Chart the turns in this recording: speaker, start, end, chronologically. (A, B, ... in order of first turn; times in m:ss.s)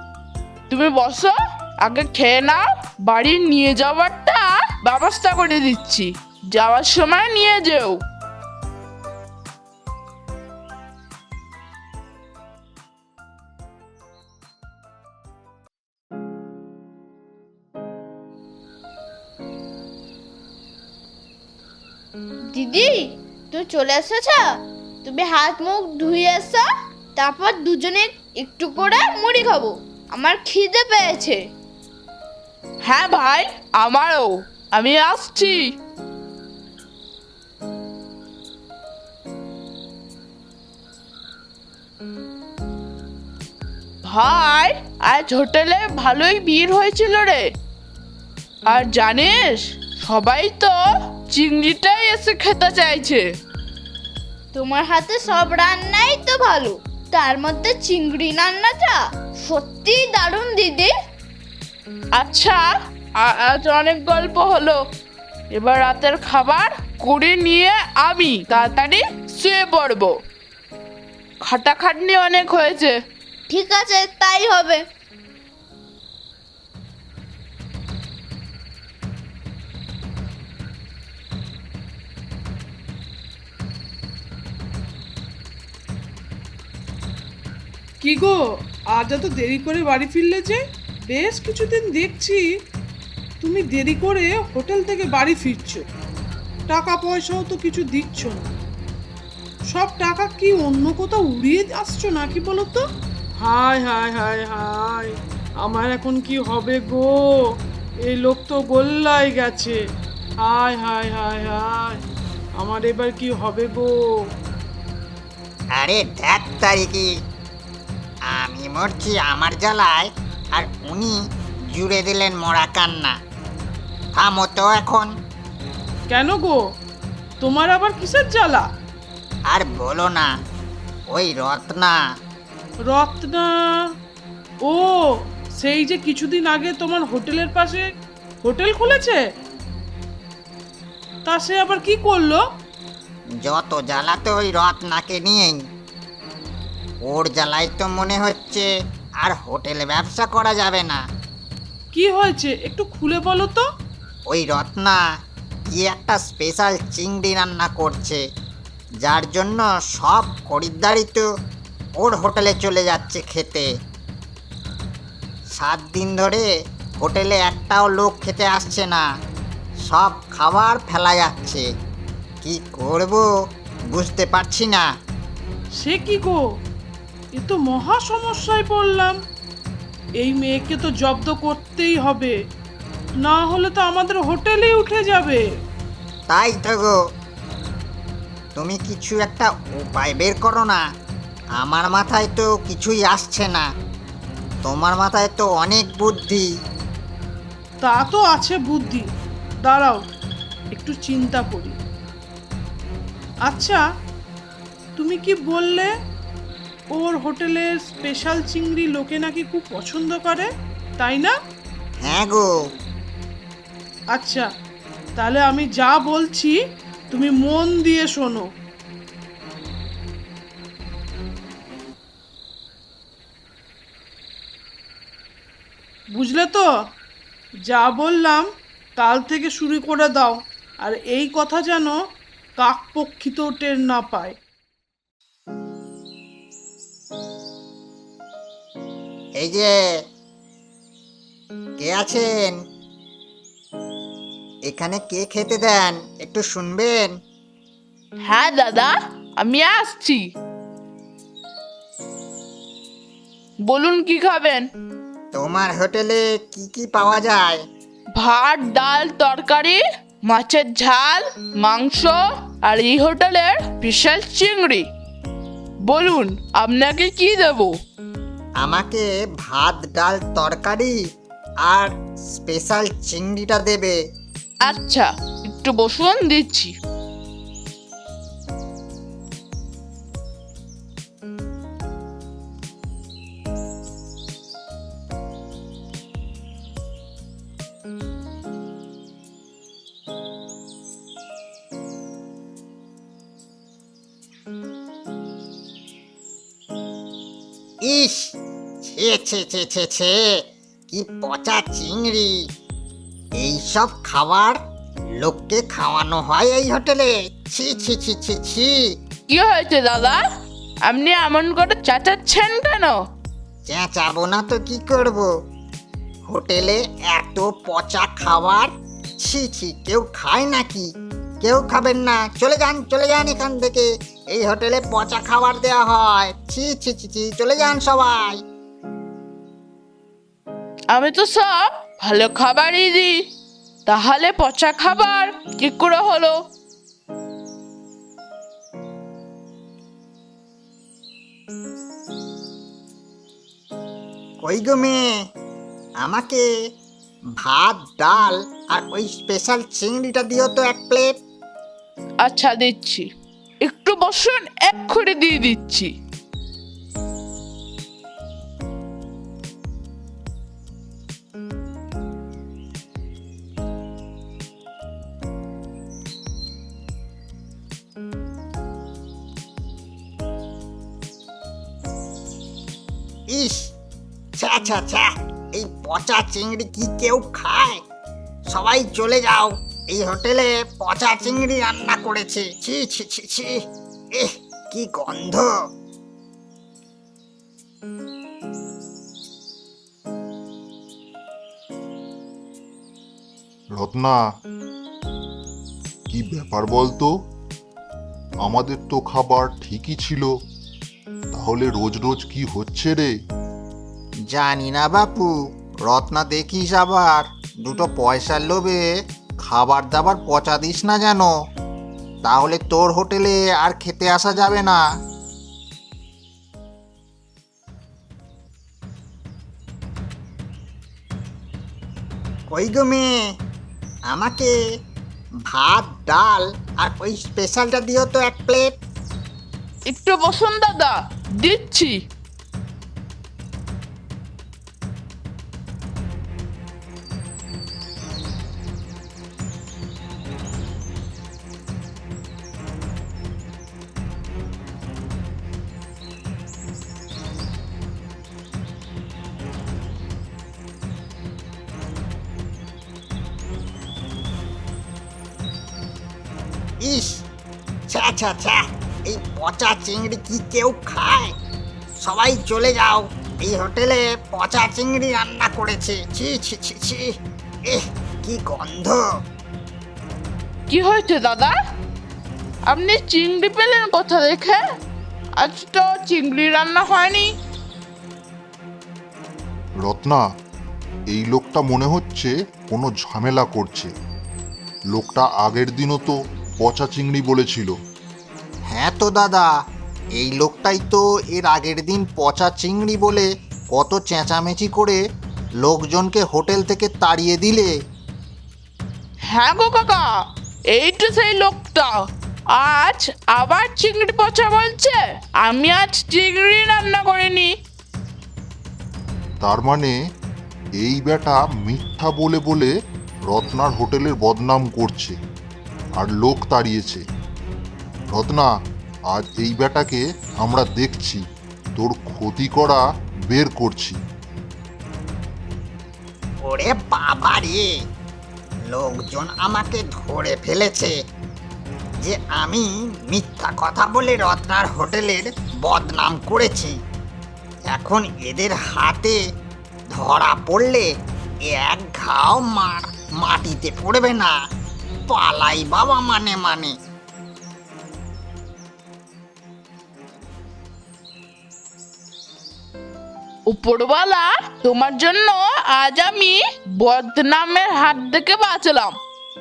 0:00.7-0:08.0 A
0:22.5-0:24.4 B
0:25.0-0:31.4 B
0:32.8-0:35.7 A
0:44.0-0:47.4 A
0:48.7-0:50.7 A
0:51.3-0:53.2 A
0:54.5-1:00.9 B
1:02.2-1:02.6 A
1:03.2-1:04.8 A
1:05.5-1:10.1 A
1:11.4-1:13.0 A
1:13.5-1:14.8 B
1:28.0-1:28.4 C
1:28.9-1:30.6 C
1:31.1-1:32.4 C
1:33.4-1:35.8 C
1:36.7-1:38.5 C
1:39.7-1:42.8 C
1:43.4-1:47.2 C
1:48.1-1:49.8 C
1:50.4-1:52.0 C
1:52.6-1:53.9 C
1:55.8-1:57.1 D
1:58.3-2:01.2 D
2:01.7-2:03.1 D
2:04.2-2:05.1 D
2:06.1-2:06.6 C
2:07.4-2:08.6 C
2:09.5-2:10.3 D
2:11.1-2:12.0 D
2:12.9-2:13.5 C
2:14.6-2:17.8 C
2:18.4-2:19.2 C
2:21.2-2:22.4 C
2:23.4-2:25.6 D
2:27.0-2:28.7 D
2:29.2-2:31.0 D
2:31.9-2:33.6 C
2:34.3-2:35.0 D
2:35.7-2:38.2 D
2:39.0-2:41.2 D
2:42.0-2:43.7 D
2:45.5-2:46.5 D
2:47.0-2:49.0 D
2:49.9-2:51.6 D
2:52.4-2:53.2 D
2:53.9-2:54.8 D
2:55.8-2:56.4 C
2:57.4-2:59.2 C
3:00.2-3:02.3 C
3:03.2-3:05.4 C
3:06.3-3:07.0 D
3:08.6-3:10.8 D
3:11.6-3:13.6 D
3:14.6-3:16.4 D
3:17.8-3:19.1 C
3:19.6-3:20.0 C
3:20.7-3:21.8 C
3:23.5-3:23.8 C
3:25.0-3:25.9 C
3:26.9-3:31.3 C
3:32.0-3:32.5 D
3:34.1-3:34.5 C
3:35.2-3:36.6 C
3:37.1-3:38.4 C
3:46.1-3:46.7 C
3:47.7-3:52.0 C
3:52.6-3:54.4 C
3:59.4-3:59.7 D
4:01.8-4:02.6 D
4:04.7-4:07.1 D
4:08.2-4:10.2 A
4:13.7-4:14.7 A
4:15.3-4:17.6 D
4:18.2-4:24.8 A
4:25.8-4:27.7 A
4:28.6-4:31.0 D
4:31.7-4:34.0 D
4:34.6-4:36.7 A
4:57.8-5:00.2 D
5:00.9-5:02.3 D
5:03.4-5:04.6 D
5:05.2-5:08.8 D
5:09.3-5:10.2 A
5:10.8-5:13.0 A
5:13.7-5:15.3 D
5:16.3-5:20.9 D
5:21.4-5:28.4 D
5:30.9-5:33.1 A
5:33.8-5:36.3 A
5:44.4-5:45.0 D
5:46.0-5:46.4 D
5:47.4-5:51.1 D
5:52.2-5:53.0 A
5:53.6-5:55.9 A
6:13.3-6:13.7 D
6:14.4-6:17.8 D
6:18.5-6:23.6 D
6:24.1-6:25.5 D
6:33.7-6:34.2 E
6:36.1-6:37.1 E
6:38.4-6:40.3 E
6:41.3-6:43.1 E
6:44.3-6:45.3 D
6:45.9-6:48.8 D
6:49.4-6:51.3 D
6:52.2-6:54.8 D
7:02.5-7:03.1 D
7:04.1-7:04.5 D
7:05.5-7:08.7 D
7:09.9-7:12.0 A
7:36.8-7:37.2 D
7:37.9-7:41.3 D
7:42.0-7:47.1 D
7:47.7-7:49.0 D
7:50.7-7:51.5 A
7:52.7-7:54.6 A
7:55.4-7:57.3 A
7:59.8-8:00.2 E
8:01.1-8:03.9 E
8:04.9-8:07.7 E
8:08.7-8:09.5 D
8:10.2-8:15.0 D
8:15.6-8:17.7 D
8:19.3-8:20.0 A
8:20.7-8:21.9 A
8:22.5-8:27.5 A
8:29.4-8:30.0 E
8:30.8-8:32.7 E
8:33.3-8:35.2 E
8:36.0-8:37.0 E
8:38.1-8:38.5 E
8:39.1-8:41.2 E
8:41.8-8:44.0 E
8:46.4-8:47.6 D
8:48.7-8:50.9 D
8:52.0-8:56.8 D
8:57.7-8:59.2 D
8:59.9-9:00.9 D
9:01.5-9:04.3 D
9:05.1-9:06.7 D
9:13.5-9:19.0 A